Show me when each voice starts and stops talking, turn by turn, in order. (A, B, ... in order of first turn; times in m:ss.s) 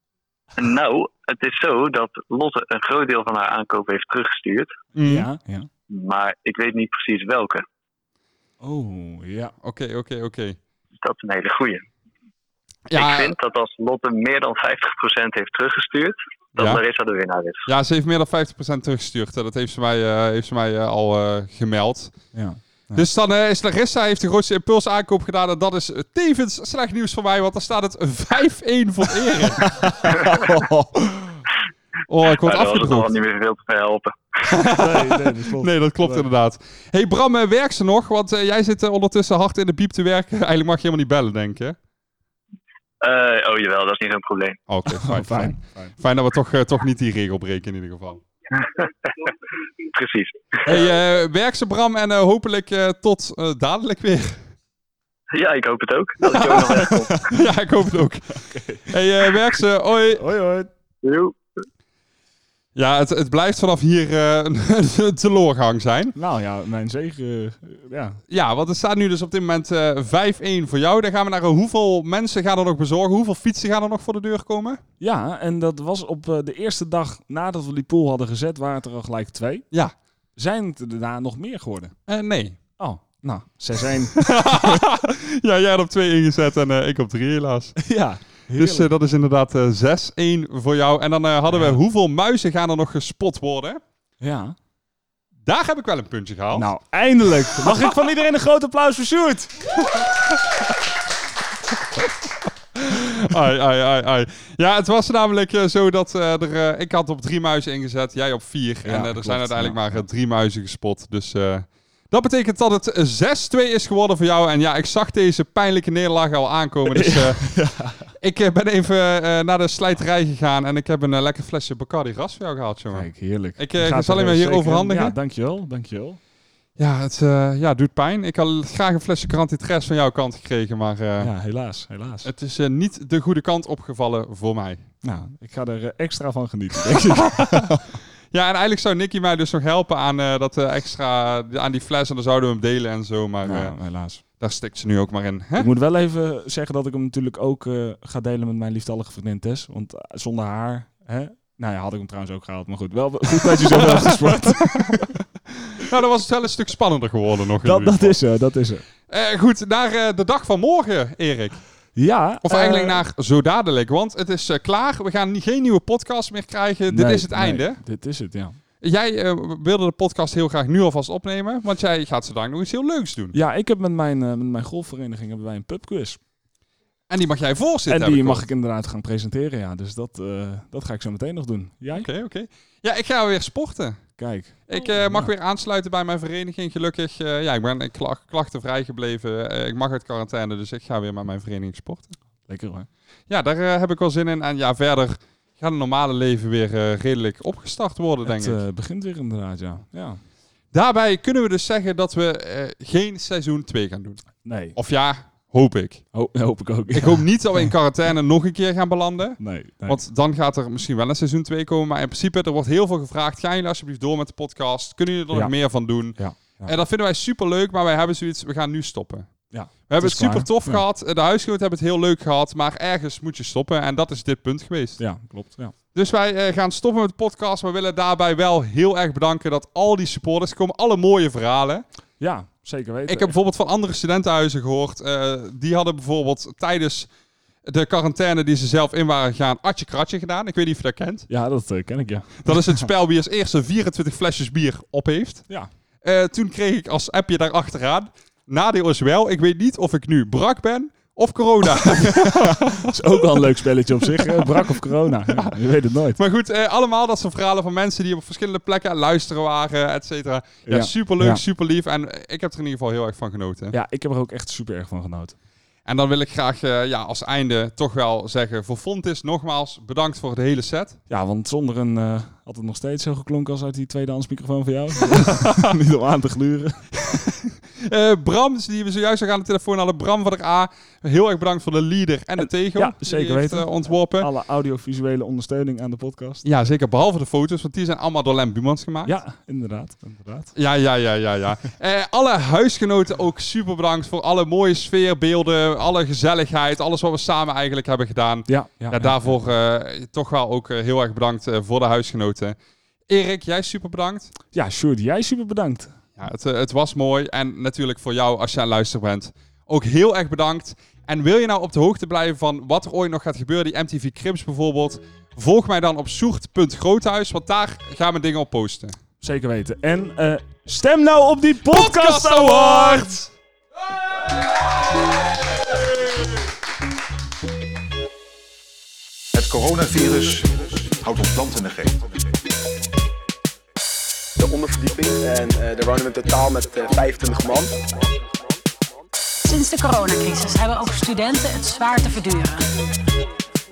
0:00.6-0:04.7 A
0:04.9-0:05.3 B
0:05.0-0:05.7 C
0:05.9-0:07.6 A
0:08.6-0:09.5 C
0:09.6-0:10.6 B
0:11.0-0:11.8 A
0:12.9-0:13.3 B
0:12.9-0:17.7 A
0:17.6-0:22.3 B
0:22.3-0:23.1 C
0:22.9-0:29.7 B
0:29.6-0:31.4 C
0:32.1-0:33.1 B
0:32.2-0:34.2 A
0:34.5-0:41.8 B
0:34.7-0:36.3 C
0:43.0-0:44.6 A
0:44.7-0:48.2 B
0:44.8-0:45.9 C
0:49.9-0:50.7 A
0:50.7-0:54.4 B
0:55.3-0:57.2 A
0:56.3-1:00.2 B
0:58.3-0:58.9 C
1:00.1-1:00.7 C
1:01.0-1:01.4 A
1:02.8-1:06.1 B
1:06.1-1:08.2 C
1:08.3-1:14.8 B
1:15.0-1:19.7 C
1:20.4-1:22.0 C
1:22.1-1:22.6 B
1:22.8-1:24.8 C
1:24.2-1:27.8 B
1:27.8-1:28.9 C
1:28.5-1:33.8 B
1:31.5-1:31.8 C
1:34.2-1:34.6 C
1:35.4-1:36.7 B
1:36.5-1:39.7 C
1:37.5-1:37.8 B
1:42.8-1:57.5 B
1:48.8-1:50.1 C
1:56.9-1:58.1 C
1:58.2-2:05.2 B
2:02.9-2:06.2 C
2:06.8-2:11.3 B
2:11.2-2:12.3 C
2:12.2-2:14.8 B
2:15.0-2:18.0 C
2:17.3-2:17.7 B
2:18.3-2:25.7 B
2:23.4-2:24.2 C
2:25.6-2:35.1 C
2:33.7-2:35.0 B
2:35.8-2:38.3 B
2:37.6-2:38.8 C
2:39.1-2:47.8 B
2:41.9-2:43.0 C
2:46.9-2:48.6 C
2:48.8-2:53.3 B
2:53.3-2:56.2 C
2:57.1-2:58.4 B
2:57.9-3:02.1 C
3:01.9-3:04.1 B
3:04.2-3:05.3 C
3:04.7-3:12.2 B
3:12.5-3:12.9 C
3:13.3-3:18.6 B
3:18.2-3:20.2 C
3:20.7-3:26.1 B
3:24.4-3:24.8 C
3:26.1-3:27.7 C
3:26.9-3:39.3 B
3:29.4-3:30.0 C
3:35.3-3:36.8 C
3:39.5-3:40.8 C
3:39.9-3:45.2 B
3:45.0-3:45.7 C
3:45.9-3:51.8 B
3:52.2-3:53.3 C
3:53.0-3:57.1 B
3:57.7-4:01.3 B
4:01.3-4:02.9 C
4:02.4-4:05.5 B
4:06.0-4:12.9 B
4:11.8-4:16.2 C
4:14.2-4:15.5 B
4:16.2-4:23.7 B
4:20.6-4:21.4 C
4:23.7-4:25.4 C
4:25.8-4:31.0 B
4:31.1-4:37.2 C
4:37.8-4:44.3 B
4:42.4-4:46.4 C
4:46.4-4:49.2 B
4:49.0-4:50.6 C
4:50.5-5:02.6 B
4:58.5-4:59.4 C
5:03.1-5:04.3 B
5:04.5-5:05.9 C
5:06.2-5:19.0 B
5:19.2-5:23.2 C
5:21.7-5:23.3 B
5:29.3-5:32.3 D
5:34.4-5:37.7 E
5:39.4-5:42.7 F